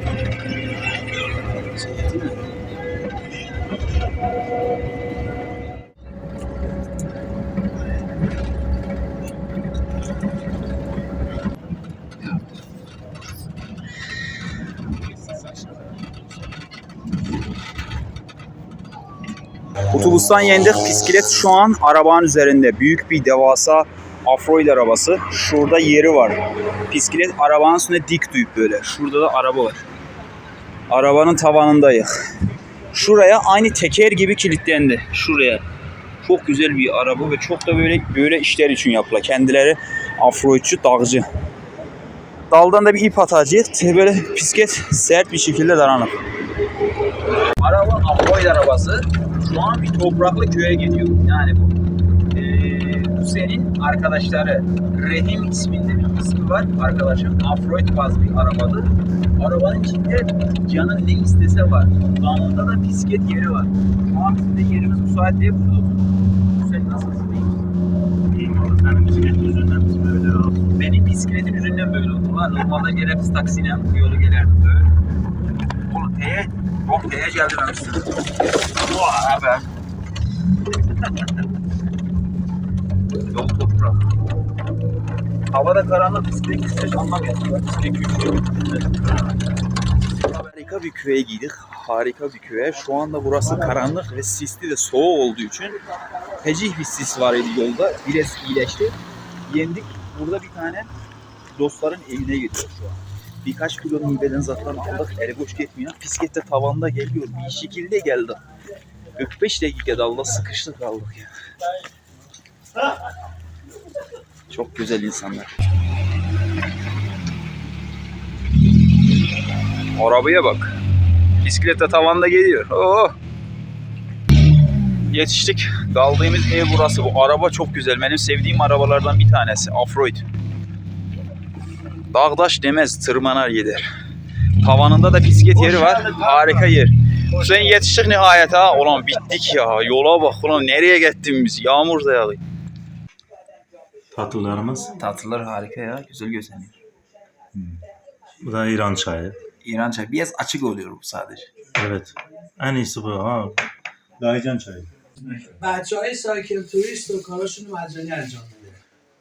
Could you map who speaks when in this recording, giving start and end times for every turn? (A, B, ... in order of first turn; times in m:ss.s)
0:01.7-0:02.4 A
0:19.9-0:29.9 A
0:30.9-0:32.1 A
0:32.9-0:35.6 A
0:36.2-0:41.3 A
0:42.5-0:46.2 A
0:47.6-0:51.7 A
0:52.3-1:06.0 A
1:06.5-1:07.6 A
1:08.3-1:10.5 B
1:10.8-1:14.9 A
1:15.9-1:18.2 A
1:18.9-1:19.7 A
1:23.3-1:24.1 A
1:25.5-1:28.6 A
1:30.2-1:35.8 A
1:36.4-1:39.0 A
1:39.5-1:40.9 A
1:41.6-1:48.4 A
1:49.2-1:51.3 A
1:54.5-1:55.5 A
2:00.0-2:00.8 A
2:01.4-2:03.2 A
2:05.1-2:10.3 A
2:12.1-2:13.9 A
2:14.6-2:22.4 A
2:24.1-2:24.9 B
2:24.9-2:26.8 A
2:27.6-2:27.8 B
2:28.4-2:29.4 B
2:29.6-2:31.5 A
2:31.8-2:33.6 B
2:34.2-2:34.9 B
2:35.4-2:38.8 C